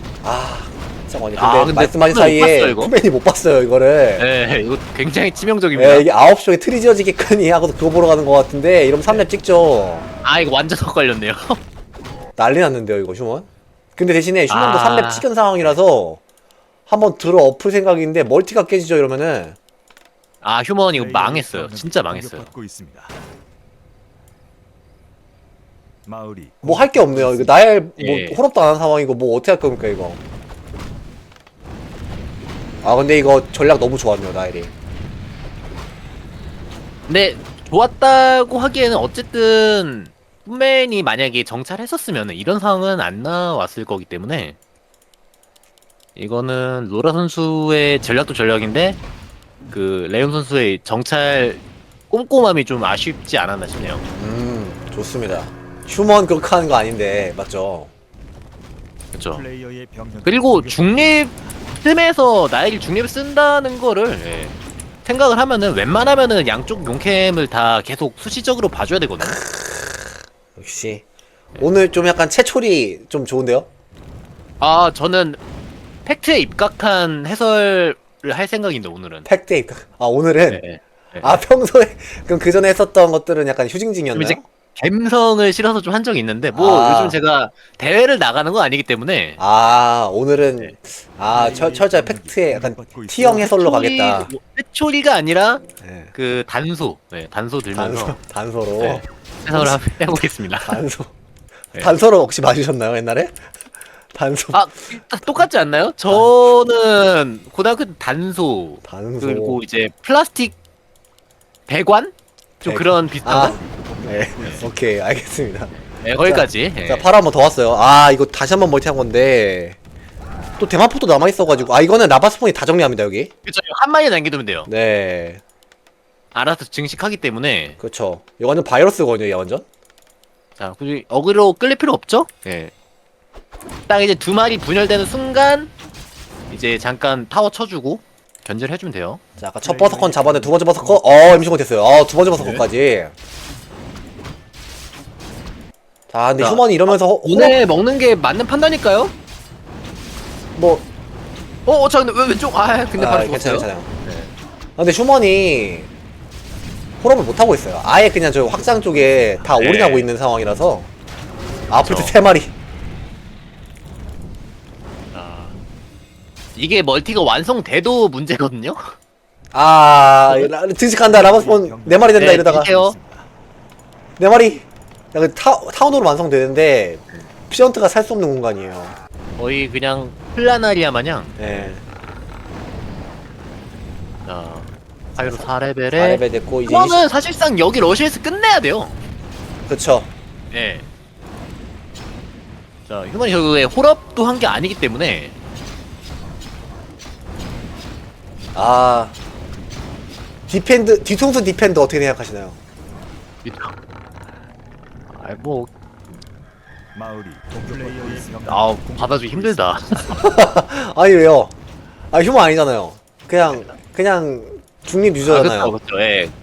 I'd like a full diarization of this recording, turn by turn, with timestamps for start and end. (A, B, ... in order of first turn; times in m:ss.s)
0:00.2-0:04.3 A
0:01.4-0:03.0 B
0:04.2-0:06.1 B
0:05.7-0:10.1 A
0:10.2-0:11.6 B
0:12.4-0:16.2 A
0:14.5-0:15.8 B
0:16.9-0:19.6 A
0:20.4-0:22.5 B
0:20.9-0:23.2 C
0:26.1-0:27.6 C
0:26.6-0:30.2 A
0:28.0-0:28.4 B
0:32.8-0:34.7 A
0:37.1-0:44.6 B
0:46.2-0:49.0 B
0:49.7-0:54.1 B
0:54.2-0:57.9 A
0:59.1-0:59.5 B
0:59.3-1:01.5 C
1:00.2-1:09.4 B
1:09.2-1:11.0 A
1:11.6-1:13.7 A
1:14.6-1:15.4 B
1:16.1-1:19.3 B
1:19.2-1:20.7 A
1:20.5-1:21.4 B
1:21.2-1:24.4 A
1:24.1-1:29.4 B
1:26.5-1:27.2 A
1:29.4-1:34.3 A
1:31.3-1:33.6 C
1:33.4-1:38.2 B
1:35.8-1:36.1 A
1:37.7-1:41.1 A
1:38.8-1:40.8 B
1:41.7-1:43.5 A
1:44.1-1:45.5 A
1:44.5-1:50.6 B
1:48.8-1:49.6 A
1:51.7-1:53.6 B
1:52.6-1:59.8 A
1:53.1-1:54.8 C
1:55.9-1:57.1 B
2:00.6-2:03.3 A
2:03.4-2:04.7 B
2:04.7-2:05.4 A
2:06.3-2:07.8 B
2:07.8-2:09.7 A
2:10.6-2:12.7 B
2:13.9-2:15.7 B
2:16.5-2:19.2 B
2:19.4-2:23.1 A
2:19.6-2:21.6 C
2:22.3-2:22.7 C
2:26.1-2:27.6 A
2:26.4-2:29.1 B
2:30.6-2:30.8 A
2:31.7-2:34.3 B
2:32.9-2:33.9 A
2:34.8-2:35.9 A
2:37.0-2:40.9 A
2:38.5-2:39.5 C
2:39.6-2:40.1 B
2:41.7-2:42.5 A
2:41.8-2:42.2 B
2:45.1-2:45.6 B
2:46.6-2:49.0 B
2:49.5-2:52.7 A
2:51.0-2:53.3 C
2:52.2-2:53.0 B
2:54.2-2:59.0 A
2:59.4-3:01.8 B
3:01.4-3:01.8 A
3:04.2-3:09.0 B
3:05.2-3:07.0 A
3:09.7-3:10.1 A
3:10.5-3:10.8 B
3:12.9-3:15.4 B
3:18.6-3:19.2 A
3:20.5-3:22.6 A
3:23.4-3:23.8 B
3:25.1-3:25.7 B
3:27.0-3:29.8 C
3:28.3-3:30.2 B
3:30.1-3:31.5 A
3:32.1-3:35.8 A
3:35.2-3:36.4 B